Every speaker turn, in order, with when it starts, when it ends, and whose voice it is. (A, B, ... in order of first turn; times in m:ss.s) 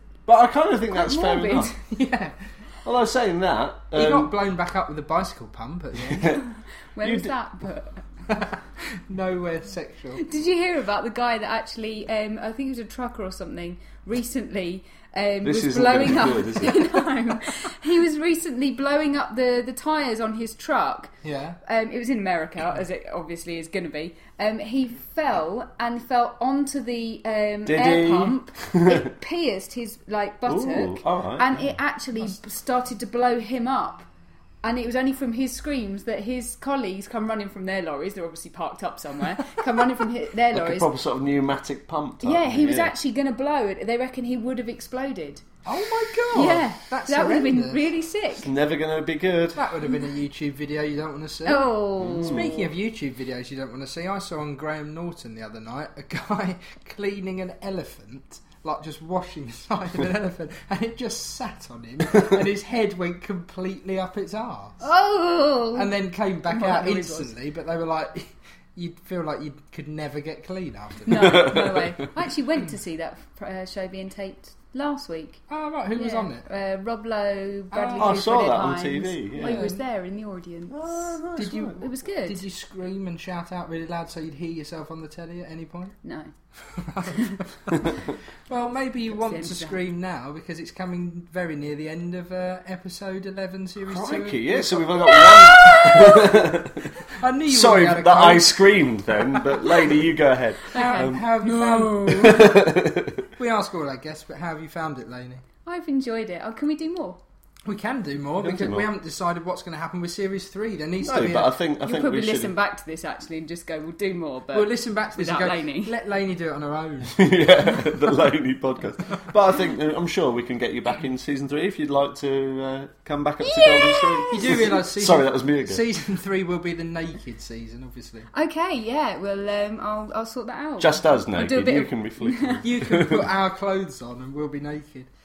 0:00.3-0:01.7 A
0:00.9-0:01.8 B
0:01.9-0:02.4 C
0:02.8-0:04.3 A
0:04.0-0:06.4 C
0:06.1-0:06.4 A
0:07.0-0:08.0 B
0:07.0-0:07.3 A
0:08.3-0:08.6 C
0:09.1-0:10.2 C
0:10.2-0:21.1 B
0:15.4-0:16.9 A
0:21.2-0:21.6 C
0:21.6-0:34.1 B
0:27.7-0:29.0 A
0:30.5-0:31.5 A
0:31.6-0:32.3 C
0:34.6-0:40.9 B
0:40.5-0:42.9 A
0:42.2-0:45.5 B
0:45.6-0:47.8 C
0:46.3-0:48.5 B
0:48.3-0:49.6 A
0:49.6-1:04.8 C
0:51.4-0:52.5 B
0:52.0-0:52.6 A
1:04.8-1:06.0 B
1:05.8-1:11.4 C
1:06.5-1:07.4 B
1:11.0-1:22.5 B
1:11.2-1:11.8 A
1:15.5-1:16.5 C
1:17.7-1:18.5 C
1:18.0-1:19.7 A
1:19.4-1:19.8 C
1:20.7-1:21.8 A
1:21.4-1:25.9 C
1:26.0-1:26.3 B
1:26.7-1:27.9 C
1:27.2-1:27.4 B
1:28.5-1:36.4 C
1:29.1-1:29.8 B
1:33.9-1:36.9 A
1:35.1-1:36.2 B
1:37.0-1:38.7 C
1:37.5-1:41.2 A
1:39.3-1:39.8 C
1:40.7-1:42.5 C
1:40.7-1:42.5 B
1:42.1-1:43.2 A
1:43.4-1:45.4 C
1:45.7-1:47.2 B
1:47.6-1:51.5 C
1:48.4-1:48.9 A
1:51.0-1:52.5 A
1:51.8-1:55.9 B
1:54.5-1:57.3 C
1:57.1-2:05.9 A
2:03.4-2:04.8 B
2:04.3-2:08.3 C
2:08.3-2:12.6 B
2:10.8-2:13.3 A
2:12.6-2:15.1 C